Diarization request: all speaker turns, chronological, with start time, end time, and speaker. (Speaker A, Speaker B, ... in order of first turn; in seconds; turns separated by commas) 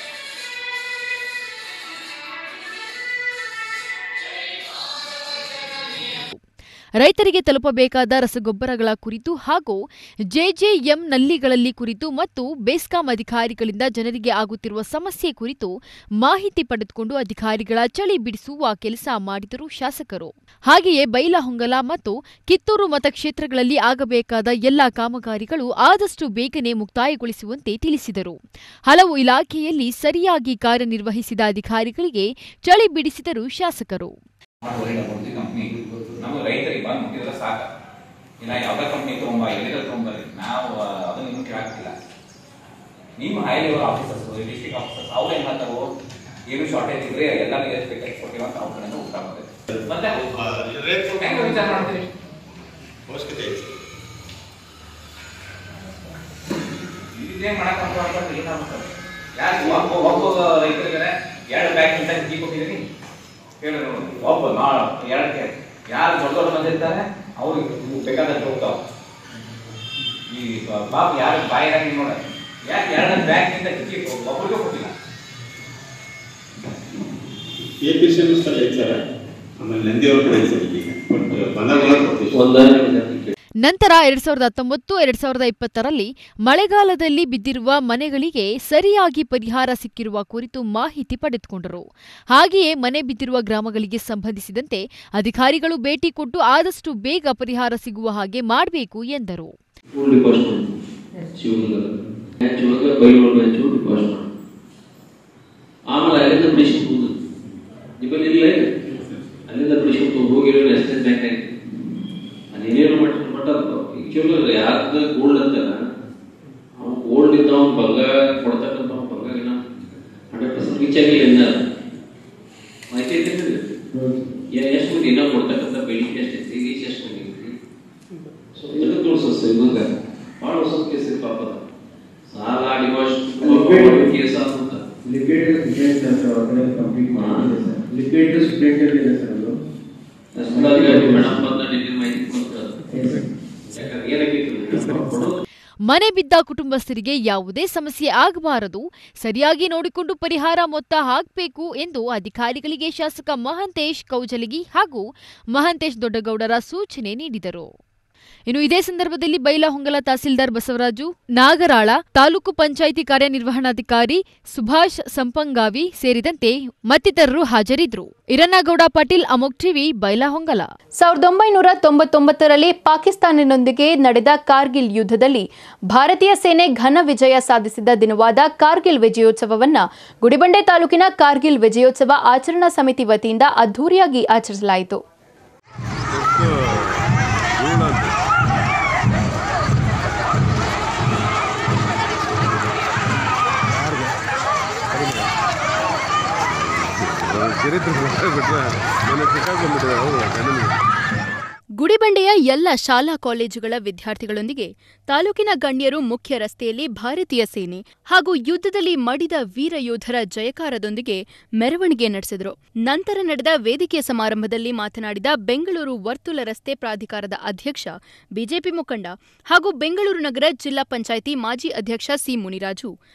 Speaker A: 7.0-34.1, Speaker B: 34.6-37.6, Speaker B: 38.4-41.9, Speaker B: 43.2-45.9, Speaker B: 46.5-50.3, Speaker C: 50.1-51.9, Speaker B: 51.2-52.1, Speaker C: 53.1-53.7, Speaker B: 57.1-62.8, Speaker B: 63.6-68.8, Speaker B: 70.3-72.2, Speaker B: 72.7-74.9, Speaker C: 77.8-79.0, Speaker C: 79.6-82.5, Speaker D: 82.3-83.3, Speaker A: 83.6-99.5, Speaker D: 99.9-100.7, Speaker D: 101.3-101.9, Speaker D: 102.4-104.3, Speaker D: 105.9-107.1, Speaker D: 108.0-108.7, Speaker D: 109.5-111.5, Speaker D: 112.5-115.8, Speaker D: 116.8-119.6, Speaker D: 120.3-121.6, Speaker D: 122.9-123.8, Speaker D: 124.6-127.5, Speaker D: 128.6-129.9, Speaker D: 130.4-131.6, Speaker D: 132.3-134.8, Speaker E: 133.4-134.1, Speaker E: 135.0-139.6, Speaker D: 137.2-137.5, Speaker D: 140.3-142.8, Speaker E: 140.5-141.4, Speaker E: 142.9-143.2, Speaker D: 143.7-145.3, Speaker A: 145.8-157.7, Speaker A: 158.5-170.7, Speaker F: 171.0-185.0, Speaker C: 186.1-187.0, Speaker C: 187.6-188.2, Speaker C: 193.7-194.1, Speaker C: 194.9-195.3, Speaker C: 196.5-200.8, Speaker F: 201.8-222.9